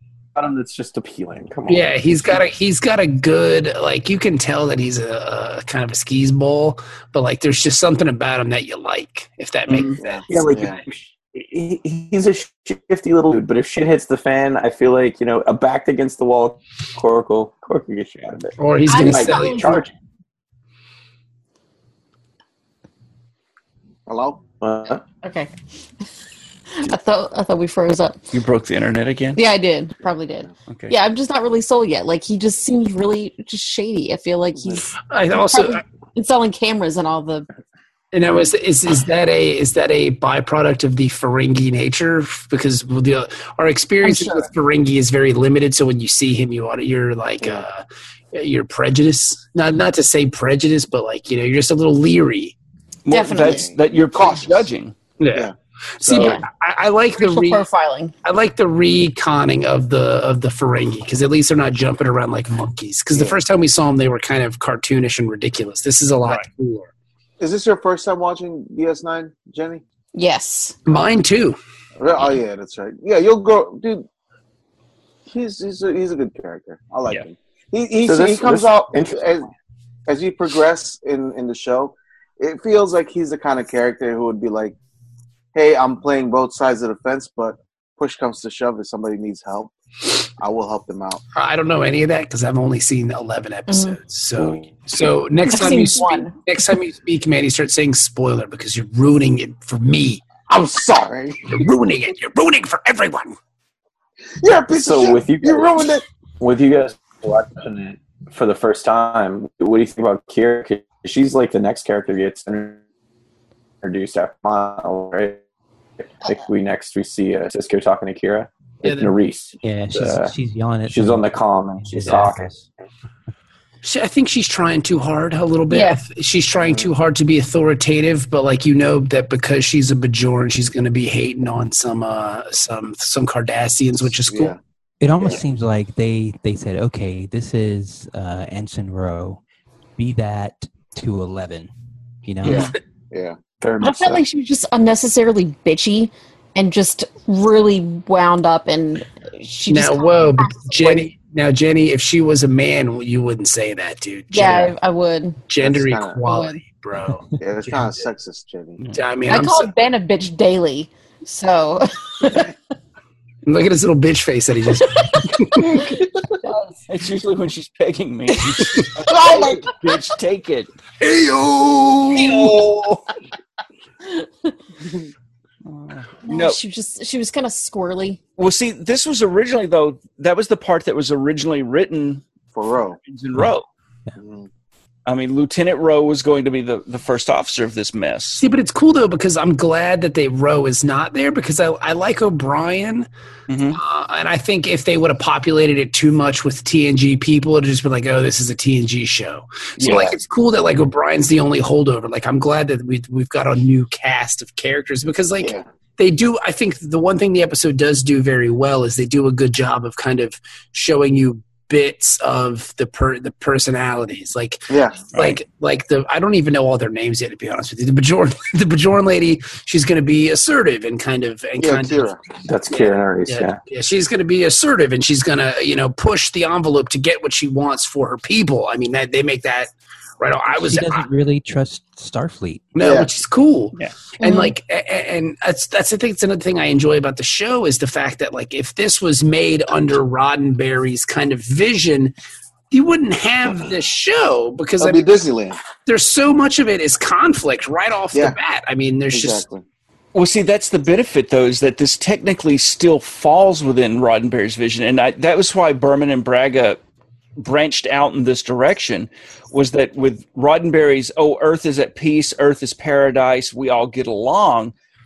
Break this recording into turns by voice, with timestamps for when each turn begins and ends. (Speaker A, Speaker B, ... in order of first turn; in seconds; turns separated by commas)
Speaker A: 0.4-2.4, Speaker B: 1.7-10.2, Speaker C: 9.7-10.0, Speaker D: 10.0-10.8, Speaker A: 10.3-19.9, Speaker B: 18.6-19.9, Speaker E: 18.9-19.8, Speaker D: 24.1-24.4, Speaker A: 24.6-25.0, Speaker E: 25.2-25.5, Speaker E: 26.7-28.2, Speaker C: 28.3-29.4, Speaker E: 29.4-37.5, Speaker B: 35.0-35.8, Speaker B: 38.1-52.5, Speaker E: 44.0-44.4, Speaker C: 53.0-55.0, Speaker E: 53.1-53.6, Speaker D: 53.3-54.7, Speaker B: 55.2-57.6, Speaker C: 56.1-56.3, Speaker E: 56.1-56.5, Speaker E: 57.2-58.1, Speaker B: 58.2-66.9, Speaker D: 63.1-63.4, Speaker D: 67.4-69.8, Speaker E: 70.2-70.8, Speaker B: 70.9-71.6, Speaker D: 72.0-74.1, Speaker D: 75.3-79.5, Speaker A: 78.1-79.3, Speaker D: 80.1-84.8, Speaker D: 85.5-91.2, Speaker B: 91.3-100.2, Speaker E: 93.7-94.0, Speaker E: 95.5-96.3, Speaker D: 100.5-101.6, Speaker B: 101.5-103.3, Speaker D: 104.4-106.0, Speaker A: 104.8-105.8, Speaker A: 106.4-112.8, Speaker A: 113.8-115.4, Speaker A: 116.2-120.3, Speaker B: 118.8-119.1, Speaker F: 119.6-122.7, Speaker A: 120.9-122.5, Speaker B: 123.8-134.6, Speaker E: 125.7-126.0, Speaker D: 126.6-126.9, Speaker D: 134.3-134.6, Speaker F: 135.0-139.4, Speaker F: 140.0-141.7, Speaker F: 142.2-142.7, Speaker D: 142.4-143.4, Speaker A: 143.6-144.2, Speaker E: 143.8-151.1, Speaker B: 149.7-154.8, Speaker E: 154.3-155.4, Speaker B: 155.5-158.0, Speaker D: 155.6-156.2, Speaker E: 156.3-156.6, Speaker D: 157.3-158.8, Speaker B: 158.9-159.7, Speaker E: 159.3-162.5, Speaker B: 163.4-165.9, Speaker E: 164.8-165.9, Speaker E: 166.4-166.8, Speaker C: 166.9-170.7, Speaker D: 169.0-169.7, Speaker D: 171.0-172.6, Speaker C: 172.1-173.1, Speaker E: 174.1-174.5, Speaker C: 175.7-176.6, Speaker E: 176.2-178.2, Speaker C: 178.4-182.2, Speaker D: 182.5-183.0, Speaker C: 183.1-183.7, Speaker D: 184.2-184.5, Speaker C: 185.1-188.4, Speaker B: 188.4-193.1, Speaker C: 193.5-193.8, Speaker B: 193.7-222.2, Speaker C: 199.8-200.2, Speaker D: 199.8-200.1, Speaker D: 205.4-205.7, Speaker D: 214.7-215.1, Speaker C: 215.1-215.4, Speaker D: 221.6-222.2, Speaker A: 222.4-223.6, Speaker B: 223.3-231.1, Speaker F: 230.5-232.7, Speaker B: 232.8-242.2, Speaker D: 232.8-233.1, Speaker E: 234.2-234.6, Speaker B: 242.7-245.1, Speaker D: 244.8-245.6, Speaker B: 245.8-249.4, Speaker D: 249.1-249.6, Speaker C: 250.1-256.8, Speaker C: 257.4-264.7